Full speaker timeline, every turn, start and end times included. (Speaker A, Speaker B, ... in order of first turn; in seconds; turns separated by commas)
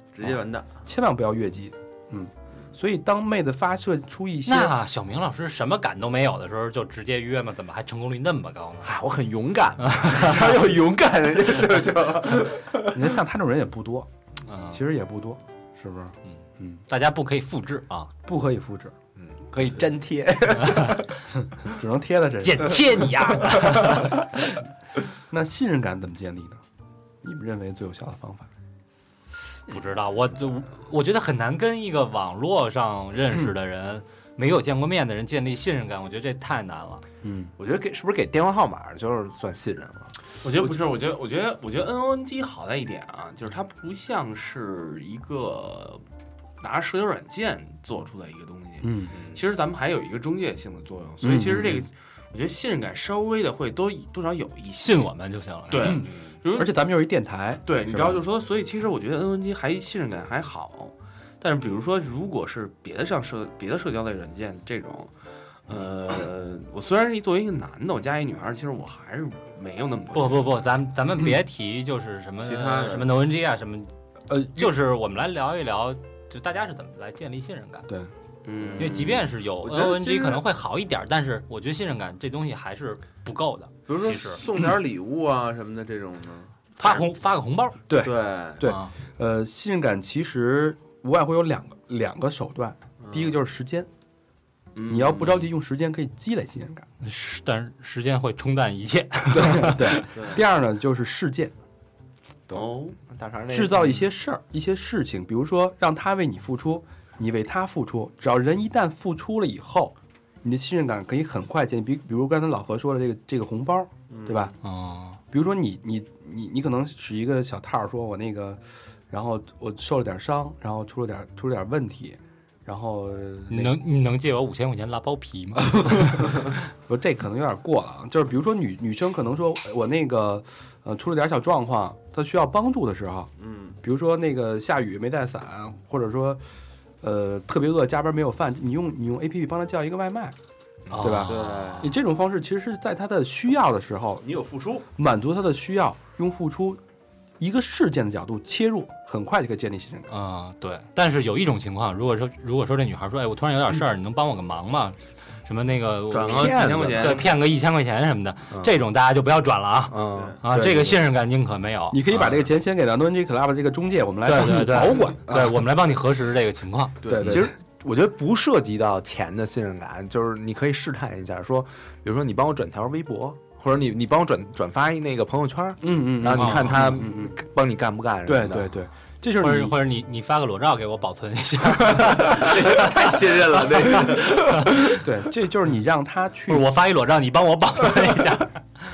Speaker A: 0.1-0.7, Speaker B: 0.8-4.8, Speaker C: 4.5-8.9, Speaker D: 8.8-12.9, Speaker C: 9.9-10.3, Speaker B: 12.9-14.1, Speaker C: 14.4-14.8, Speaker B: 14.7-16.8, Speaker C: 16.3-18.1, Speaker B: 18.2-18.9, Speaker D: 19.1-21.1, Speaker C: 20.6-21.0, Speaker B: 21.6-23.7, Speaker C: 22.4-24.3, Speaker B: 25.3-26.6, Speaker B: 27.2-28.5, Speaker C: 29.6-37.0, Speaker B: 37.2-37.5, Speaker D: 37.6-40.1, Speaker E: 40.4-46.0, Speaker E: 46.6-55.1, Speaker B: 48.8-49.1, Speaker D: 49.1-49.4, Speaker B: 51.2-51.8, Speaker C: 54.8-56.0, Speaker E: 55.7-56.8, Speaker B: 55.8-58.2, Speaker E: 57.6-65.1, Speaker E: 65.7-70.6, Speaker C: 70.1-73.9, Speaker A: 72.4-73.1, Speaker B: 74.3-74.7, Speaker C: 74.5-77.9, Speaker E: 78.4-79.2, Speaker A: 78.6-80.4, Speaker C: 78.8-84.4, Speaker A: 83.9-86.5, Speaker C: 86.8-87.9, Speaker B: 87.9-93.9, Speaker A: 88.0-88.7, Speaker C: 88.6-88.9, Speaker A: 93.0-93.3, Speaker A: 94.7-95.4, Speaker B: 94.9-96.9, Speaker C: 95.2-95.5, Speaker C: 97.0-100.1, Speaker B: 99.3-101.5, Speaker A: 100.1-100.4, Speaker D: 102.5-104.0, Speaker E: 102.5-103.0, Speaker B: 103.5-114.5, Speaker A: 114.1-114.5, Speaker C: 114.6-115.2, Speaker B: 115.3-123.8, Speaker C: 123.5-126.5, Speaker B: 125.6-133.3, Speaker A: 133.4-133.8, Speaker B: 133.8-136.4, Speaker B: 137.0-140.3, Speaker C: 140.9-141.9, Speaker B: 141.0-144.2, Speaker A: 141.2-141.9, Speaker A: 144.2-144.9, Speaker B: 145.0-146.8, Speaker B: 147.4-150.1, Speaker C: 150.1-162.5, Speaker E: 156.1-157.3, Speaker D: 156.1-157.3, Speaker D: 159.9-160.4, Speaker A: 160.1-160.4, Speaker B: 160.4-161.1, Speaker B: 161.9-165.6, Speaker C: 164.2-167.0, Speaker A: 167.0-167.4, Speaker B: 167.1-167.5, Speaker D: 167.2-178.7, Speaker B: 175.8-177.4, Speaker C: 176.3-176.8, Speaker B: 178.2-179.8, Speaker C: 179.4-185.1, Speaker A: 182.1-184.4, Speaker B: 184.9-186.7, Speaker C: 186.5-188.6